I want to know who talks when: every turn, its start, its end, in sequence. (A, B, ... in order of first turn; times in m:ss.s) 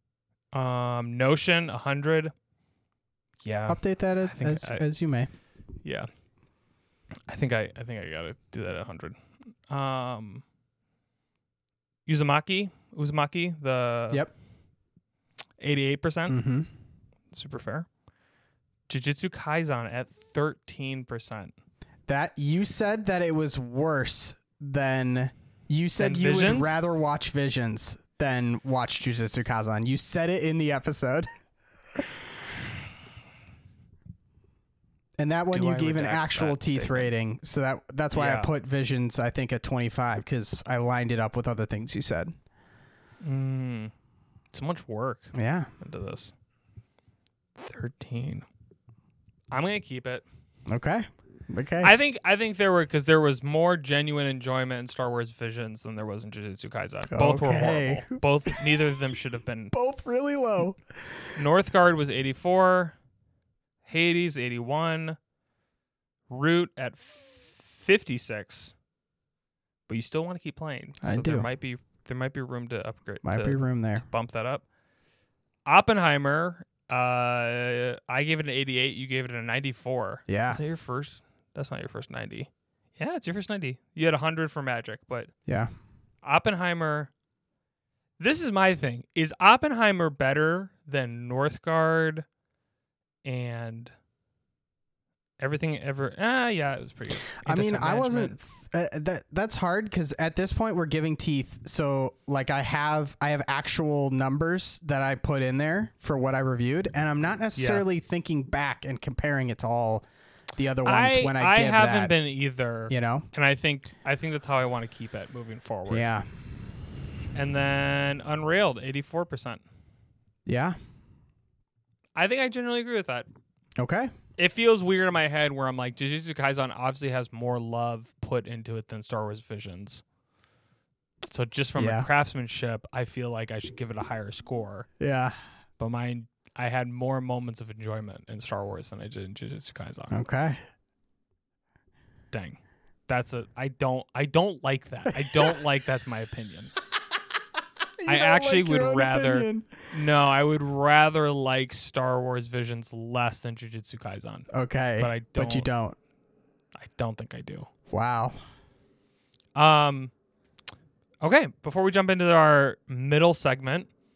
0:00.5-0:02.3 A
0:03.4-0:04.8 A
0:03.7-0:05.3 B
0:07.3-0:09.2 A
0:09.7-0:10.4 A
0:12.1-0:14.3 A
0:15.6-0:16.4 A
0:16.3-0:16.7 B
0:17.3-0:17.9 A
0:18.9-0:21.5 A
0:22.1-0:31.3 B
0:26.0-0:26.8 A
0:35.2-0:42.3 B
0:35.5-0:37.1 A
0:38.2-0:38.5 A
0:43.2-0:43.9 A
0:44.5-0:46.3 A
0:45.3-0:45.7 B
0:47.6-0:48.5 A
0:49.5-0:50.2 A
0:50.7-0:51.9 B
0:51.8-0:59.7 A
0:57.1-0:58.7 B
0:59.7-1:00.8 B
1:01.4-1:03.0 A
1:03.8-1:05.2 A
1:06.3-1:08.8 A
1:09.9-1:14.6 A
1:11.0-1:11.5 B
1:13.2-1:14.0 B
1:15.7-1:25.3 A
1:20.3-1:20.6 B
1:26.2-1:27.1 A
1:28.2-1:32.3 A
1:33.2-1:33.9 A
1:35.4-1:38.4 A
1:37.4-1:50.1 B
1:47.6-1:47.9 A
1:50.6-1:52.1 B
1:50.8-1:56.1 A
1:52.9-1:53.3 B
1:55.9-1:56.2 B
1:57.4-1:59.6 A
2:00.5-2:00.8 B
2:02.2-2:03.3 A
2:03.8-2:04.1 B
2:04.4-2:10.0 A
2:11.3-2:14.9 A
2:11.8-2:12.1 B
2:15.0-2:15.4 B
2:15.8-2:20.2 A
2:20.1-2:20.6 B
2:22.3-2:26.7 A
2:25.1-2:25.6 B
2:28.0-2:29.7 B
2:28.1-2:35.7 A
2:34.5-2:36.0 B
2:36.8-2:37.7 A
2:37.9-2:38.4 B
2:39.6-2:40.1 A
2:41.2-2:43.9 A